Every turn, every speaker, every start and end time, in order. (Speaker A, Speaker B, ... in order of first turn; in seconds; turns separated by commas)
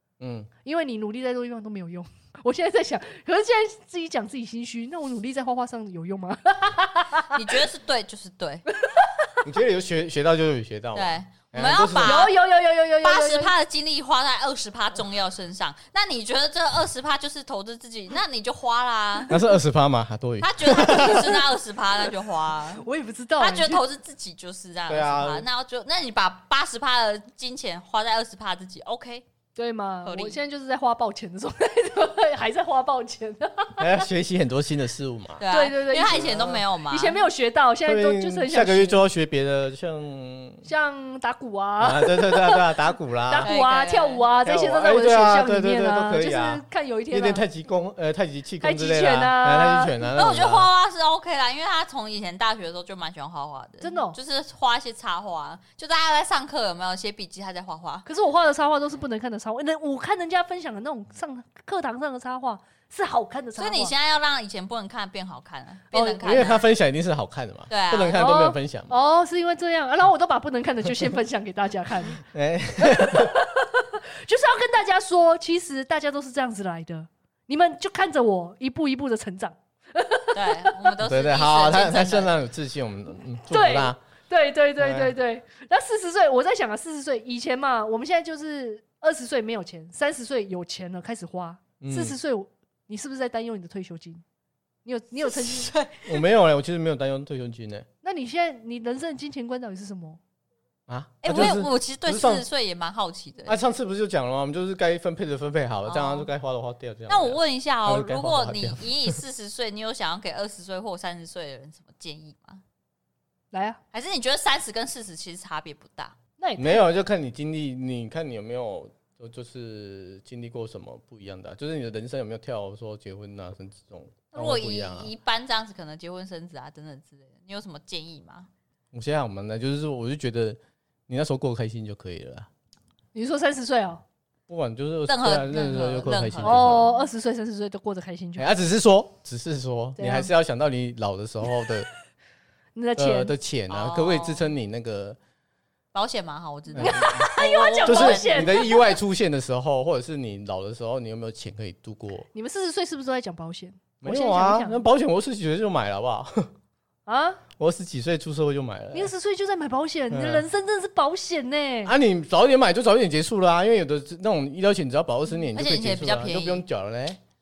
Speaker A: 0.2-0.5, Speaker B: 0.6-7.6, Speaker C: 7.3-8.7, Speaker B: 8.7-9.4, Speaker A: 9.4-12.3, Speaker C: 10.9-12.3, Speaker B: 12.0-13.5, Speaker C: 13.0-19.4, Speaker A: 19.3-21.4, Speaker C: 20.4-22.8, Speaker B: 21.0-21.4, Speaker B: 22.8-23.8, Speaker C: 23.4-29.2, Speaker A: 24.9-25.5, Speaker B: 29.6-34.0, Speaker C: 30.1-30.4, Speaker A: 33.8-36.6, Speaker C: 35.4-37.2, Speaker B: 35.5-39.0, Speaker A: 37.9-40.6, Speaker B: 40.6-42.6, Speaker A: 41.8-43.5, Speaker B: 43.3-47.5, Speaker C: 43.4-44.3, Speaker A: 44.5-50.7, Speaker B: 48.6-50.0, Speaker C: 50.1-58.1, Speaker B: 53.8-54.2, Speaker B: 58.1-63.9, Speaker C: 63.6-66.7, Speaker A: 65.9-69.0, Speaker C: 67.7-68.2, Speaker B: 68.2-72.2, Speaker A: 72.2-73.3, Speaker B: 72.8-80.9, Speaker C: 80.3-82.3, Speaker A: 81.0-84.0, Speaker B: 83.5-94.2, Speaker A: 84.8-85.1, Speaker A: 91.8-92.2, Speaker B: 94.8-95.7, Speaker C: 95.2-96.2, Speaker A: 96.0-97.9, Speaker B: 98.0-100.2, Speaker A: 100.9-102.5, Speaker C: 101.2-103.6, Speaker A: 103.5-109.2, Speaker C: 105.9-106.3, Speaker C: 107.1-112.6, Speaker B: 113.5-113.8, Speaker C: 113.9-116.2, Speaker B: 116.4-116.8, Speaker A: 116.6-125.1, Speaker C: 124.3-128.5, Speaker A: 128.9-132.5, Speaker B: 133.1-134.0, Speaker A: 134.5-136.9, Speaker C: 135.1-136.9, Speaker B: 136.4-138.5, Speaker A: 138.4-141.9, Speaker B: 140.0-140.3, Speaker B: 142.8-143.3, Speaker A: 143.0-145.2, Speaker C: 143.7-144.5, Speaker C: 145.9-148.6, Speaker A: 146.7-147.3, Speaker B: 146.8-149.0, Speaker A: 147.8-152.3, Speaker B: 152.3-154.8, Speaker A: 154.0-156.5, Speaker B: 157.1-157.4, Speaker A: 157.6-159.1, Speaker B: 158.9-161.9, Speaker A: 160.1-160.5, Speaker A: 161.8-167.2, Speaker C: 165.5-166.7